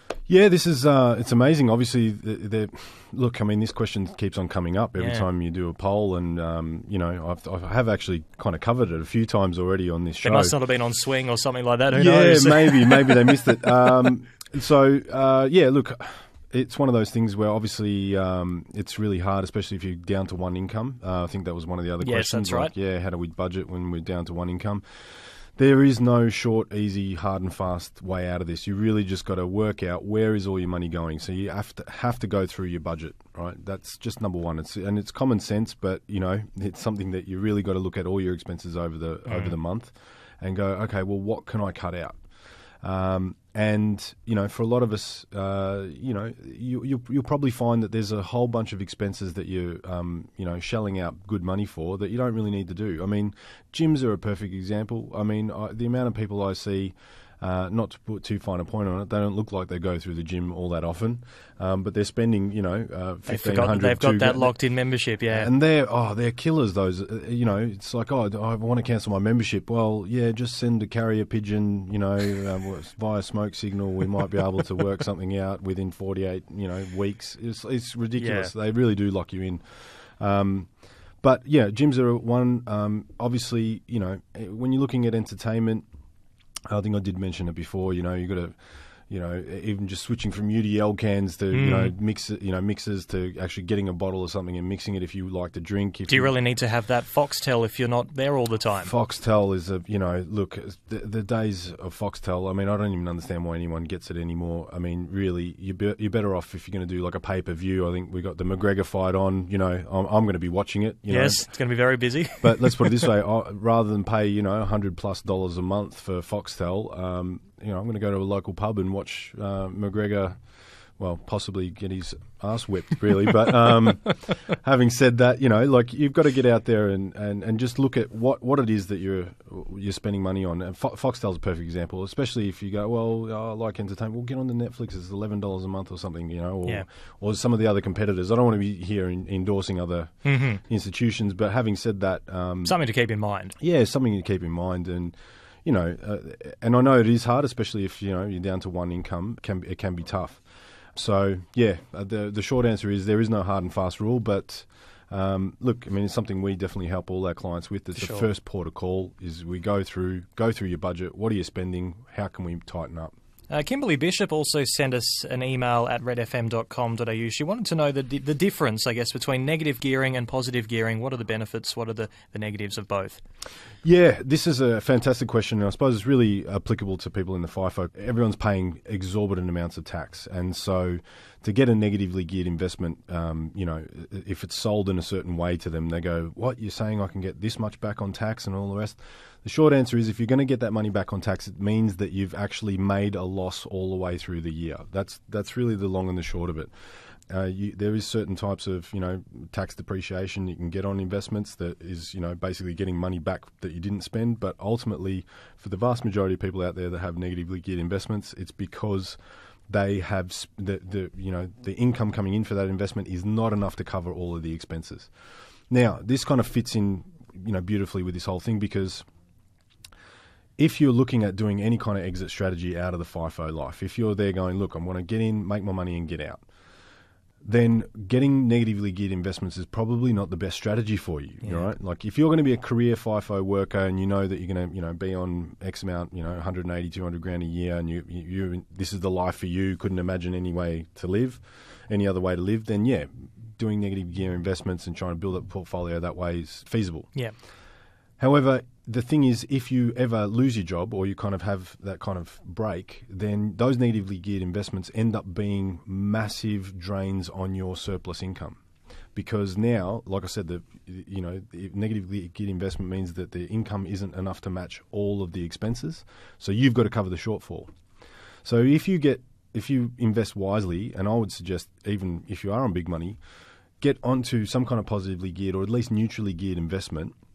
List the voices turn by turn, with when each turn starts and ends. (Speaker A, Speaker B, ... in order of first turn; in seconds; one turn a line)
Speaker A: 0.3-10.5
Speaker B: 5.0-5.2
Speaker B: 10.2-13.4
Speaker A: 11.9-42.2
Speaker B: 22.0-22.7
Speaker B: 39.3-39.5
Speaker A: 42.8-64.7
Speaker B: 63.2-65.5
Speaker A: 65.3-85.8
Speaker B: 78.2-78.5
Speaker A: 86.7-96.3
Speaker B: 91.5-91.9
Speaker B: 96.1-98.9
Speaker A: 98.8-142.7
Speaker B: 111.1-113.1
Speaker B: 140.2-140.6
Speaker B: 142.6-143.5
Speaker A: 143.6-163.1
Speaker B: 157.9-158.3
Speaker B: 163.5-173.2
Speaker A: 173.8-196.7
Speaker A: 197.3-215.1
Speaker A: 215.7-219.0
Speaker A: 220.6-226.4
Speaker A: 227.4-247.2
Speaker B: 231.4-231.7
Speaker A: 248.2-258.6
Speaker A: 259.1-267.7
Speaker A: 268.4-273.2
Speaker A: 273.8-277.1